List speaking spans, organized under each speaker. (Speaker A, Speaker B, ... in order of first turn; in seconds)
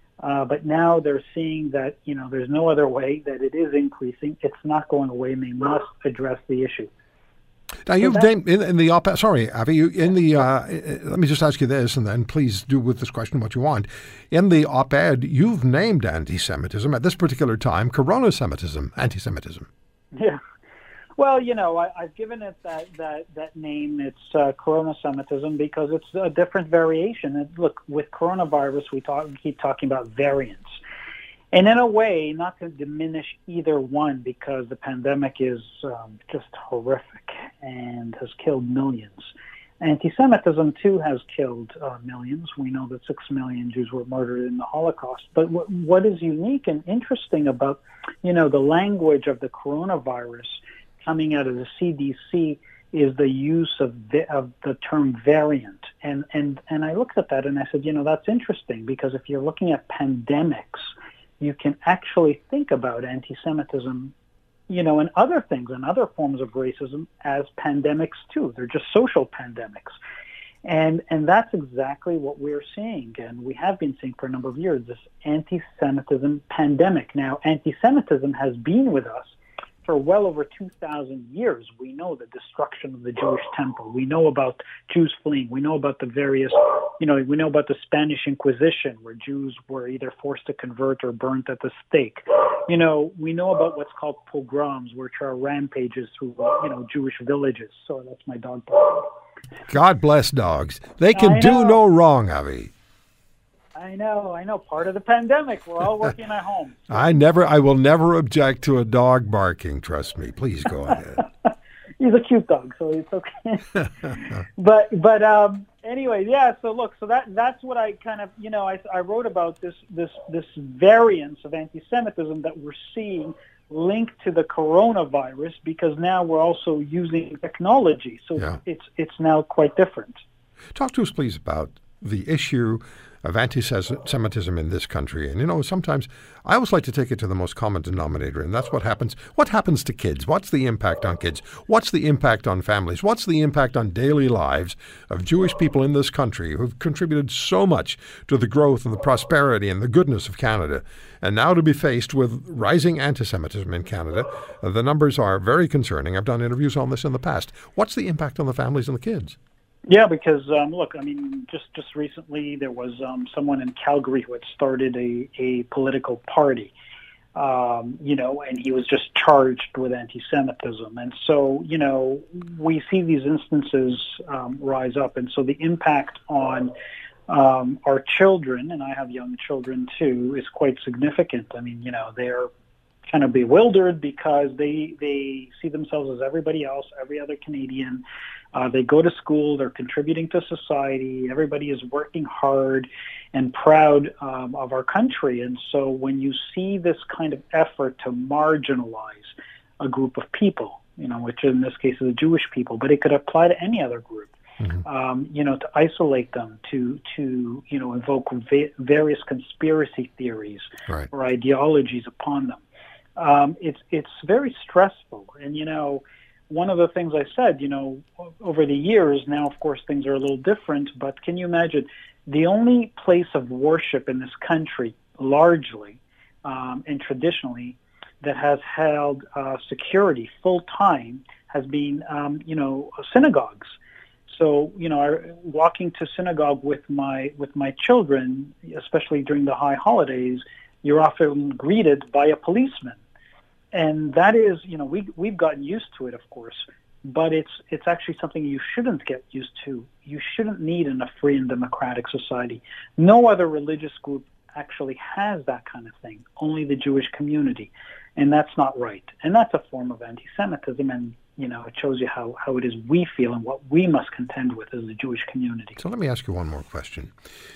Speaker A: 0.2-6.9, 8.0-8.3, 20.1-20.4, 21.2-30.8, 31.5-64.1, 64.7-70.0, 70.7-99.1, 101.1-101.8, 103.8-107.2, 112.0-130.2, 159.9-166.7, 167.3-176.7, 177.3-182.5, 183.1-188.0, 188.5-212.6, 213.2-233.8, 234.3-243.0, 243.7-265.8
Speaker B: 7.9-19.7, 99.7-102.7, 106.9-111.3, 130.8-159.4, 265.8-267.1